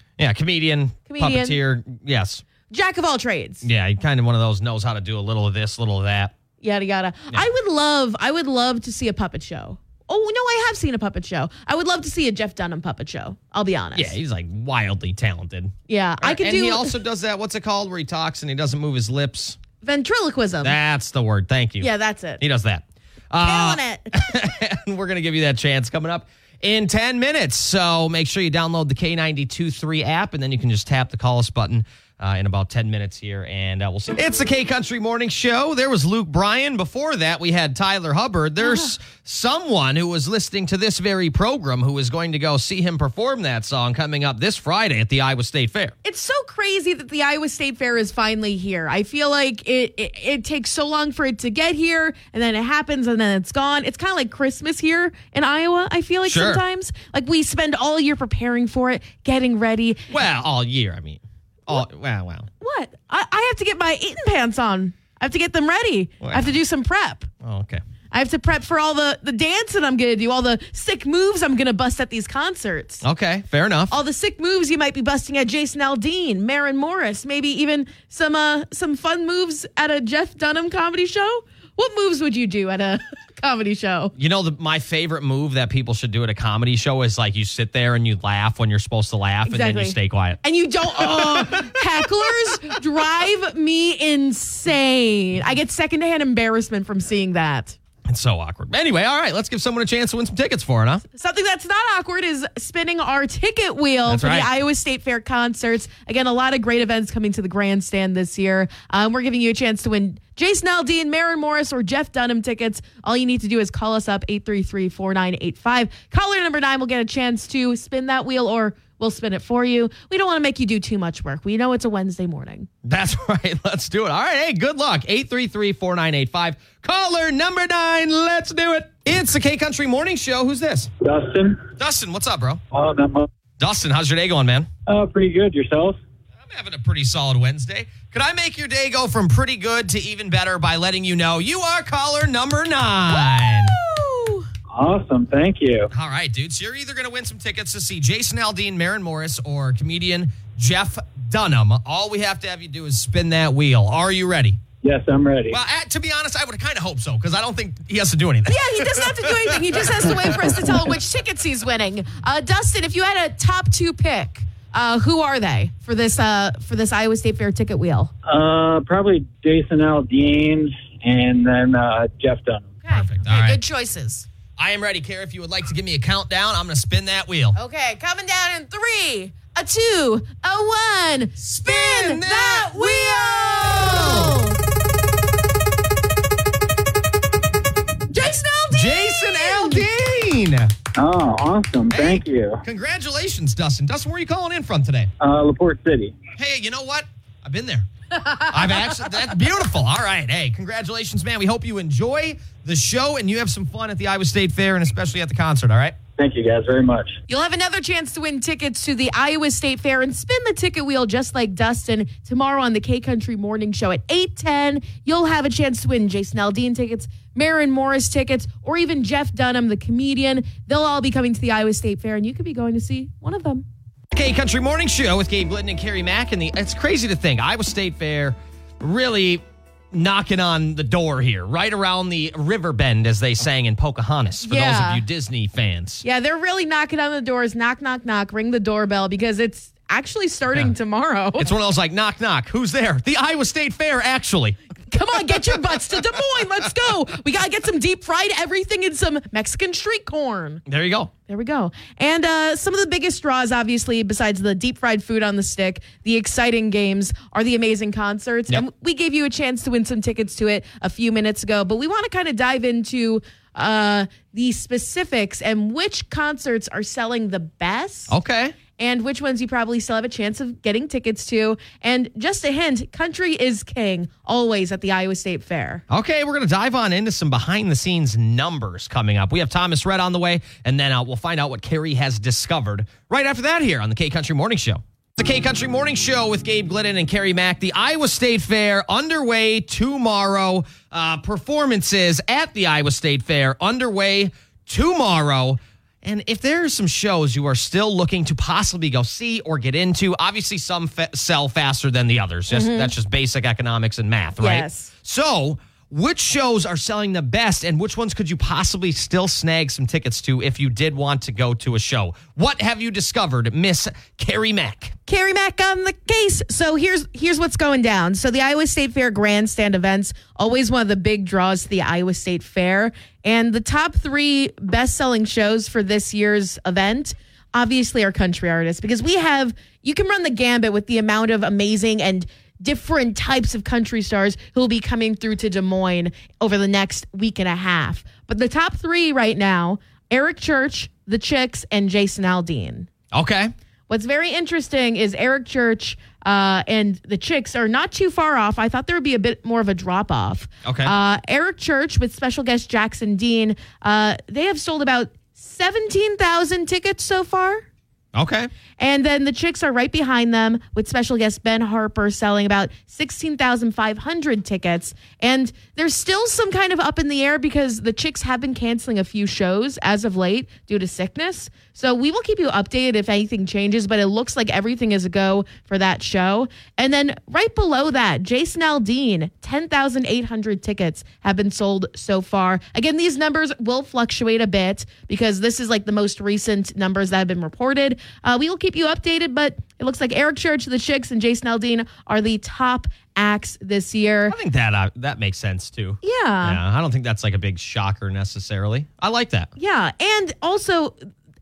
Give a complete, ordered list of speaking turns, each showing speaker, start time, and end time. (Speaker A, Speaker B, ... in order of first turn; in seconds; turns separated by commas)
Speaker A: 0.2-2.4, Speaker B: 1.1-1.6, Speaker B: 2.7-3.6, Speaker A: 3.6-6.3, Speaker B: 6.6-14.2, Speaker A: 13.9-19.6, Speaker B: 15.9-17.0, Speaker B: 19.8-20.8, Speaker A: 20.6-46.0, Speaker B: 21.8-22.4, Speaker B: 23.4-24.2, Speaker B: 46.0-60.1, Speaker A: 56.3-56.6, Speaker A: 60.1-62.5, Speaker B: 62.6-67.3, Speaker A: 66.2-66.5, Speaker A: 67.4-67.8, Speaker B: 68.1-73.0, Speaker A: 73.0-74.0, Speaker B: 73.9-84.1, Speaker A: 84.2-92.3, Speaker B: 89.5-97.8, Speaker A: 98.1-101.0, Speaker B: 101.1-122.7, Speaker A: 104.1-104.5, Speaker A: 122.8-130.9, Speaker C: 131.0-131.7, Speaker A: 131.8-132.6, Speaker C: 132.7-133.3, Speaker A: 133.6-134.7, Speaker C: 134.9-136.0, Speaker A: 136.5-143.8, Speaker B: 143.1-144.5, Speaker C: 144.7-145.9, Speaker A: 145.9-154.6, Speaker C: 154.8-155.6, Speaker A: 155.5-160.6, Speaker B: 158.5-168.1, Speaker C: 168.3-172.8, Speaker B: 172.8-174.3, Speaker A: 172.9-173.6, Speaker A: 174.6-177.6, Speaker B: 177.6-184.6, Speaker A: 181.5-184.4, Speaker B: 188.1-189.9, Speaker A: 188.7-190.7, Speaker C: 191.0-192.6, Speaker A: 191.9-195.1, Speaker C: 195.2-196.2, Speaker A: 196.4-197.9, Speaker B: 198.3-199.2, Speaker A: 198.4-206.0, Speaker C: 206.2-207.2, Speaker B: 207.3-223.7, Speaker A: 224.1-236.0, Speaker B: 234.4-235.0, Speaker B: 236.0-241.5, Speaker A: 241.4-244.6, Speaker B: 244.9-250.6, Speaker A: 250.7-251.1, Speaker B: 251.3-268.1, Speaker A: 268.1-268.6, Speaker B: 268.8-275.8, Speaker A: 275.9-315.0, Speaker B: 302.5-302.9, Speaker B: 304.4-304.9, Speaker B: 315.1-342.9, Speaker A: 343.1-343.5, Speaker B: 343.9-357.7, Speaker A: 350.6-350.9, Speaker A: 358.1-358.5, Speaker B: 358.8-394.4, Speaker A: 394.3-399.5, Speaker B: 396.0-396.6, Speaker B: 399.6-401.0